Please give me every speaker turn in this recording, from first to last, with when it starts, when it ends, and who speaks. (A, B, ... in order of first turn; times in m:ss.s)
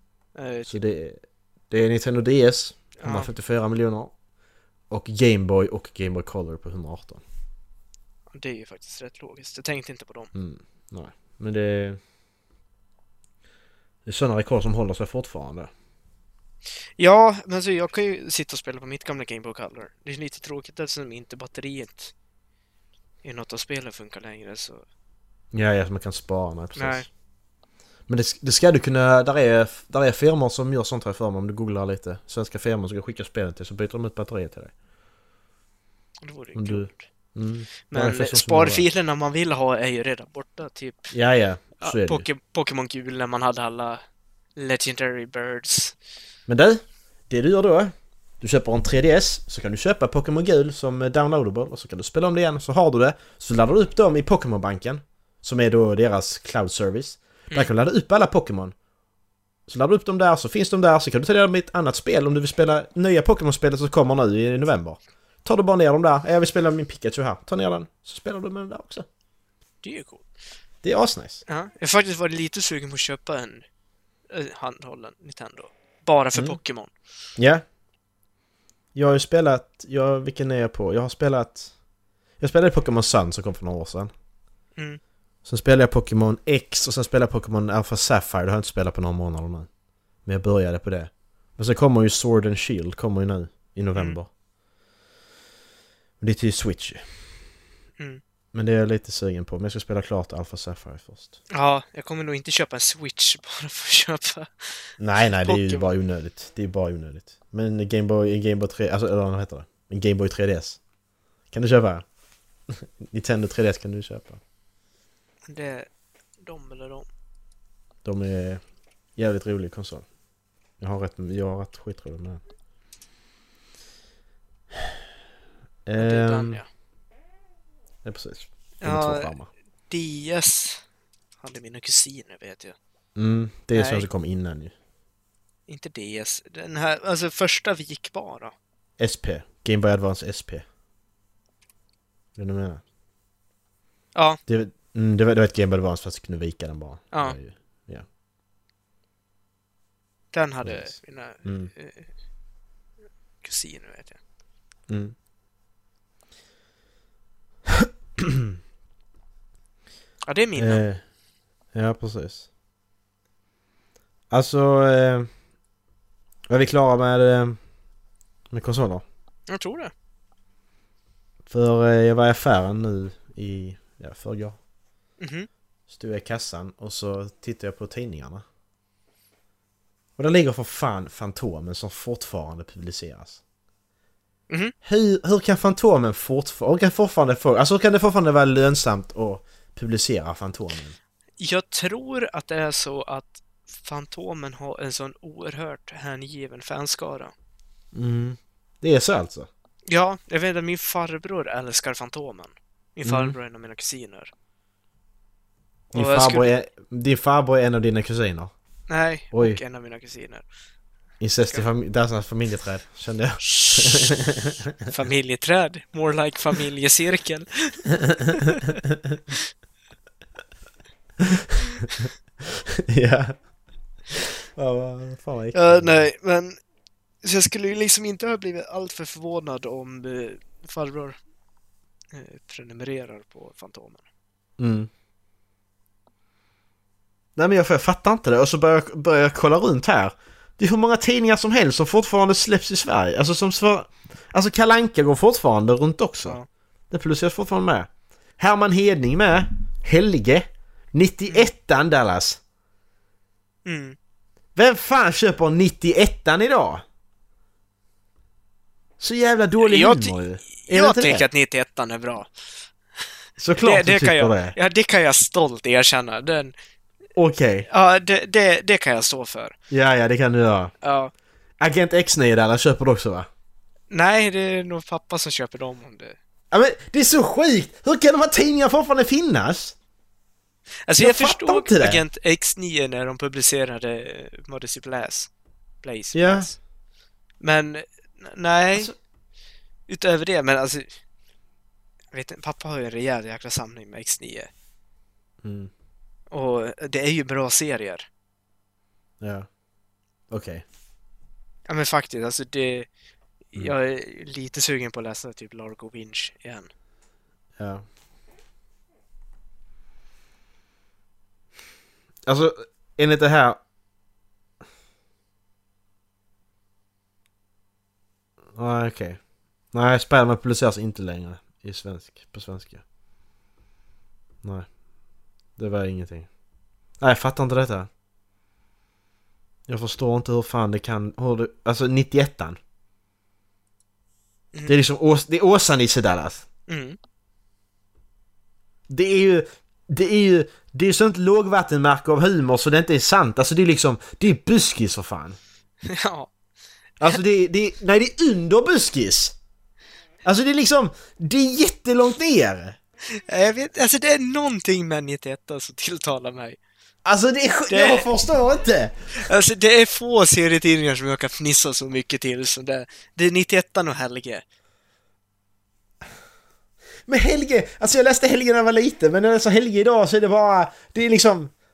0:00.4-0:00.8 A
0:00.6-0:04.1 B
0:03.0-0:03.3 A
0:04.9-0:07.2 B
0:08.3-0:10.3 A
0:10.3-0:12.0 B
0:14.0-0:15.7 B
0:17.0-0:22.1 A
0:23.2-0:24.8 A
0:25.5-0:27.1 B
0:26.7-0:27.1 A
0:28.1-0:34.7 B
0:36.2-0:37.1 A
0:36.5-0:38.8 B
0:37.9-0:41.1 A
0:41.1-0:42.2 B
0:41.8-0:44.0 A
0:44.6-0:45.9 A
0:46.5-0:58.7 B
0:59.7-1:09.0 B
1:09.8-1:10.2 A
1:10.8-1:11.4 B
1:11.5-1:13.6 A
1:14.3-1:16.9 A
1:16.3-1:16.6 B
1:17.4-1:17.6 B
1:18.9-1:21.7 B
1:22.4-1:24.1 B
1:25.4-1:29.7 B
1:30.2-1:34.3 B
1:36.2-1:37.0 B
1:38.5-1:41.4 B
1:41.5-1:44.9 A
1:45.0-1:50.8 B
1:45.4-1:45.8 A
1:51.5-1:52.0 B
1:52.7-1:54.4 B
1:55.5-1:55.9 A
1:56.4-1:57.1 A
1:58.0-1:58.6 B
1:59.2-2:00.0 B
2:00.8-2:02.4 B
2:05.8-2:06.6 B
2:06.0-2:06.6 A
2:08.0-2:09.5 B
2:08.8-2:09.3 A
2:09.9-2:10.8 A
2:11.4-2:12.7 A
2:13.2-2:14.7 B
2:13.7-2:14.0 A
2:15.7-2:18.5 A
2:19.0-2:20.6 B
2:22.4-2:22.8 B
2:24.1-2:24.4 A
2:24.5-2:28.0 B
2:27.1-2:27.4 A
2:30.3-2:32.1 A
2:30.6-2:31.7 B
2:33.4-2:34.2 A
2:34.9-2:35.1 B
2:37.8-2:38.5 B
2:40.3-2:40.8 A
2:40.6-2:41.0 B
2:41.7-2:42.5 B
2:44.3-2:45.3 B
2:46.5-2:47.6 B
2:48.5-2:49.0 B
2:49.5-2:49.9 A
2:51.4-2:54.6 B
2:55.2-2:55.5 A
2:55.9-2:58.4 B
3:00.2-3:03.4 B
3:04.8-3:11.0 B
3:11.4-3:17.3 A
3:17.9-3:19.5 B
3:19.9-3:24.3 A
3:23.0-3:23.4 B
3:25.9-3:26.5 A
3:25.9-3:28.5 B
3:28.9-3:30.4 A
3:29.3-3:29.6 B
3:31.2-3:34.9 B
3:33.4-3:34.1 A
3:34.8-3:38.7 A
3:41.2-3:42.1 B
3:42.7-3:43.4 B
3:44.6-3:46.0 B
3:45.5-3:46.6 A
3:47.2-3:51.2 A
3:52.1-3:54.0 A
3:54.6-3:54.9 B
3:57.4-4:06.4 B
4:06.9-4:12.4 B
4:13.6-4:14.0 A
4:14.5-4:16.8 B
4:19.0-4:21.2 B
4:19.6-4:22.3 A
4:23.4-4:24.6 B
4:23.6-4:26.5 A
4:27.2-4:27.7 B
4:27.7-4:29.5 A
4:29.7-4:30.7 B
4:30.8-4:31.1 A
4:31.6-4:33.3 B
4:33.9-4:36.2 A
4:36.5-4:39.8 B
4:40.8-4:45.3 A
4:41.0-4:42.0 B
4:45.8-4:46.6 A
4:46.1-4:46.5 B
4:47.4-4:48.9 A
4:49.9-4:50.9 A
4:52.1-4:54.5 A
4:55.4-4:55.7 B
4:56.3-4:58.0 A
4:59.2-4:59.5 B
5:00.3-5:00.6 B
5:01.7-5:02.9 A
5:03.5-5:06.7 A
5:07.6-5:07.8 B
5:12.2-5:13.6 B
5:18.5-5:19.2 B
5:19.7-5:22.8 B
5:25.6-5:26.3 B
5:27.0-5:27.9 B
5:29.7-5:32.6 B
5:34.6-5:36.4 B
5:36.7-5:37.0 A
5:38.9-5:45.4 B
5:45.8-5:46.3 A
5:47.0-5:49.4 B
5:50.2-5:52.8 B
5:53.1-5:56.6 A
5:57.0-5:59.2 B
5:57.7-5:58.1 A
5:59.1-6:04.4 A
6:07.0-6:11.5 B